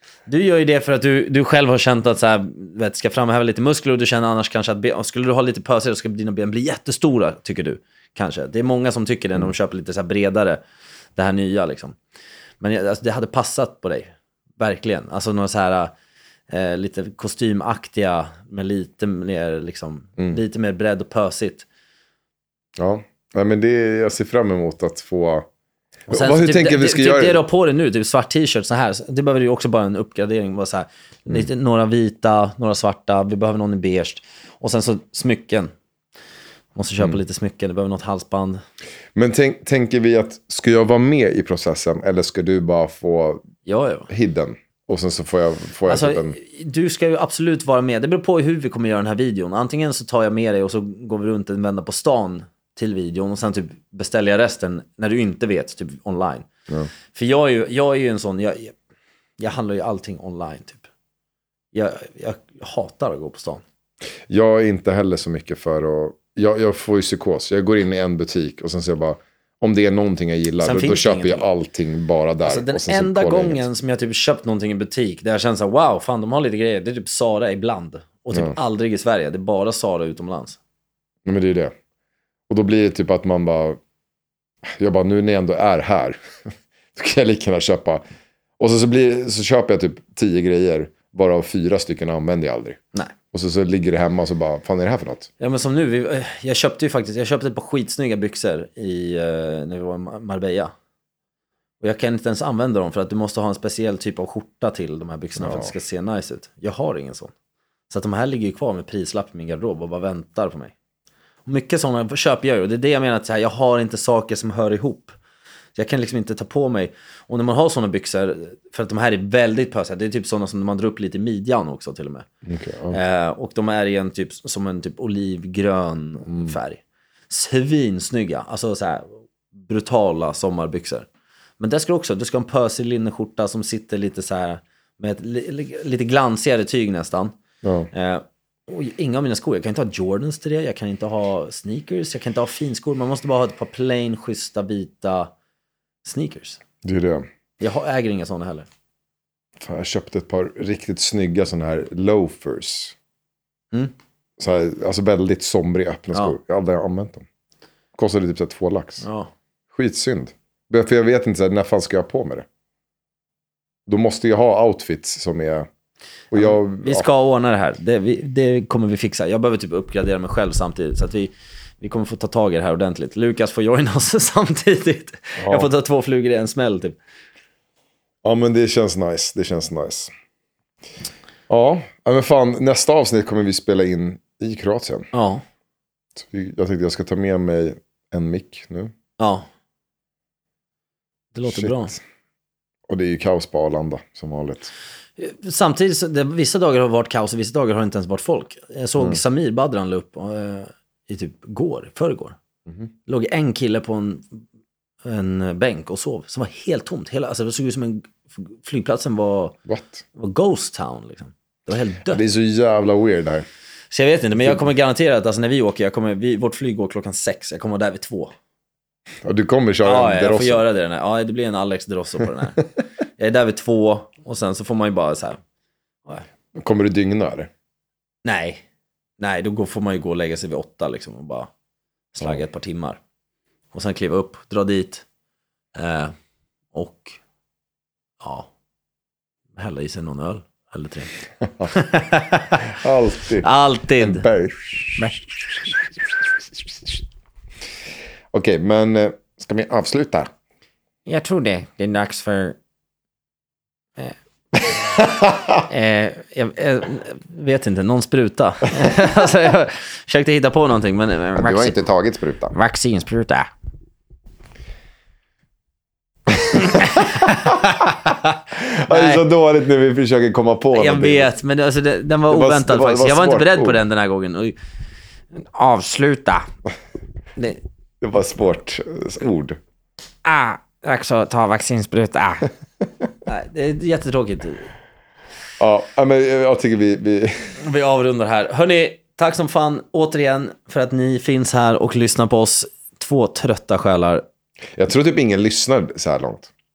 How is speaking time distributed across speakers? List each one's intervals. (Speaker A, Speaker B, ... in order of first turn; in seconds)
Speaker A: 0.3-10.6, 11.2-12.0, 12.6-15.9, 16.5-21.7, 26.1-35.7, 36.8-38.6, 43.7-44.1, 45.9-56.5, 57.1-58.8, 59.4-60.9, 61.7-63.6, 70.6-71.5, 72.5-80.6, 95.4-100.7, 101.8-107.3, 107.9-110.7, 111.5-115.2, 115.8-122.3, 122.9-131.1, 131.6-137.3, 137.9-145.3, 146.1-146.6, 147.6-148.7, 159.0-159.3, 166.3-177.0, 185.1-185.4, 189.2-189.5, 191.3-191.9, 195.2-202.4, 203.1-204.4, 205.1-209.6, 210.2-212.2, 213.9-218.3, 219.8-222.7, 223.2-225.4, 228.2-228.6, 229.2-231.5, 232.1-233.0, 233.7-235.1, 235.8-236.1, 236.7-237.2, 238.2-238.5, 239.6-241.1, 241.7-242.7, 243.4-244.2, 251.1-252.1, 255.7-261.7, 262.6-263.4, 266.6-268.4, 268.9-269.2, 270.7-274.6, 275.6-276.3, 280.3-280.7, 283.3-284.7, 287.6-294.2
Speaker B: 22.8-25.5, 26.1-27.4, 39.1-43.5, 44.1-46.4, 64.3-73.6, 81.2-81.7, 82.5-83.8, 84.7-88.0, 88.6-92.8, 93.3-95.3, 105.4-105.7, 122.5-123.0, 126.3-126.6, 137.6-137.9, 146.8-147.3, 149.6-153.0, 154.4-157.3, 157.9-159.1, 159.7-162.5, 163.9-165.7, 166.3-167.1, 175.4-175.7, 178.2-180.1, 181.5-185.1, 186.2-188.9, 191.5-192.0, 192.9-194.7, 209.7-210.0, 212.1-213.5, 214.4-214.6, 219.2-220.6, 226.6-227.5, 241.4-241.7, 242.7-245.2, 248.3-250.3, 255.2-255.6, 261.4-262.6, 266.3-267.3, 268.6-271.3, 272.3-273.8, 278.0-279.6, 282.8-283.1, 285.6-287.5, 294.8-296.5
Speaker C: 251.1-252.5, 275.6-276.4, 280.3-282.5